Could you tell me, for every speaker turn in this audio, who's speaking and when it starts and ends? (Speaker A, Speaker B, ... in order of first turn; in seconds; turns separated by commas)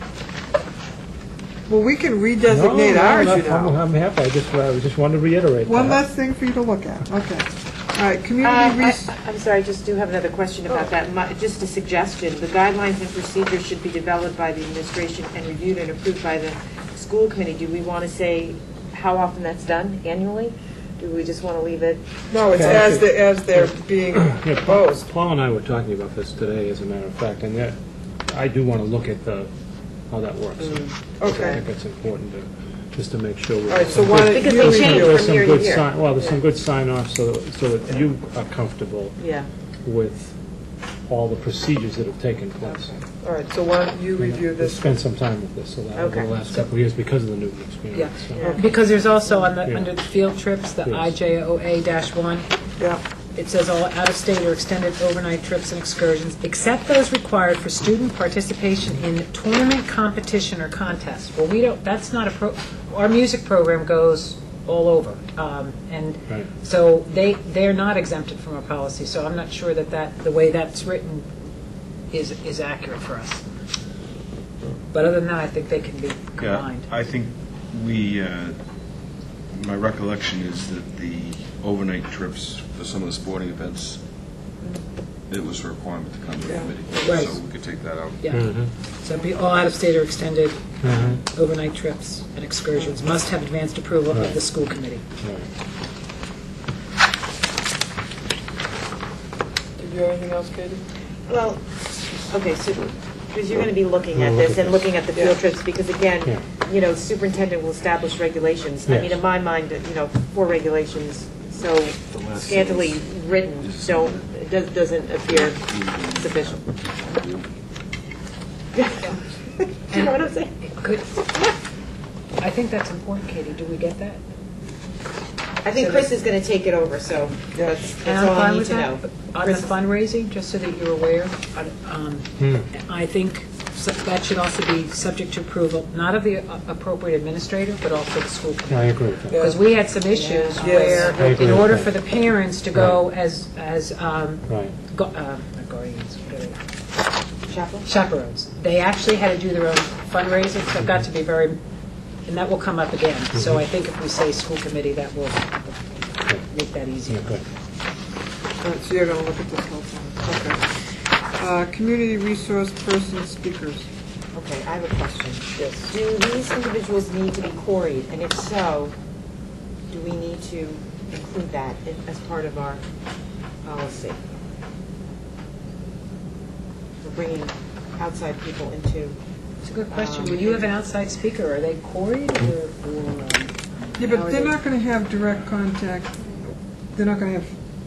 Speaker A: 1.7-3.8, Speaker B: 2.5-6.0, Speaker A: 5.6-9.1, Speaker C: 8.4-22.0, Speaker A: 22.3-25.1, Speaker B: 22.5-27.8, Speaker C: 22.6-23.0, Speaker B: 28.3-29.5, Speaker B: 30.1-39.3, Speaker A: 31.2-31.6, Speaker A: 33.7-35.3, Speaker C: 34.0-36.4, Speaker C: 39.2-39.5, Speaker B: 39.8-40.4, Speaker B: 41.0-42.9, Speaker C: 42.6-43.0, Speaker A: 43.2-45.0, Speaker B: 44.2-48.4, Speaker C: 45.9-46.5, Speaker D: 47.9-52.5, Speaker C: 48.3-48.7, Speaker A: 48.4-48.8, Speaker B: 49.6-49.9, Speaker B: 50.8-51.1, Speaker D: 53.3-71.3, Speaker D: 72.1-73.4, Speaker D: 74.9-76.9, Speaker E: 76.4-78.6, Speaker E: 79.5-84.0, Speaker E: 85.3-88.3, Speaker A: 86.4-87.2, Speaker D: 87.0-87.3, Speaker D: 88.2-95.0, Speaker B: 88.3-88.7, Speaker B: 90.8-91.2, Speaker B: 94.1-94.4, Speaker B: 95.2-95.5, Speaker A: 99.8-100.8, Speaker C: 101.3-101.6, Speaker C: 102.3-116.6, Speaker B: 104.1-104.8, Speaker A: 105.1-105.4, Speaker B: 108.8-109.2, Speaker E: 112.1-114.3, Speaker E: 115.2-117.5, Speaker C: 118.7-120.5, Speaker D: 119.9-121.2, Speaker D: 122.4-124.2, Speaker C: 125.6-129.7, Speaker D: 125.8-126.1, Speaker D: 128.0-146.6, Speaker B: 132.4-132.7, Speaker B: 138.7-139.5, Speaker A: 139.3-139.6, Speaker C: 140.1-141.4, Speaker A: 140.6-141.2, Speaker B: 141.2-142.0, Speaker B: 142.7-143.0, Speaker B: 144.5-144.7, Speaker C: 147.5-147.9, Speaker D: 147.8-151.6, Speaker D: 152.2-157.2, Speaker B: 153.3-153.6, Speaker B: 157.1-157.4, Speaker A: 158.6-160.6, Speaker A: 161.4-163.8, Speaker C: 164.3-168.9, Speaker D: 165.6-165.9, Speaker C: 169.9-172.8, Speaker C: 173.6-174.2, Speaker C: 177.0-179.2, Speaker D: 179.6-184.6, Speaker C: 179.9-180.7, Speaker A: 184.0-187.5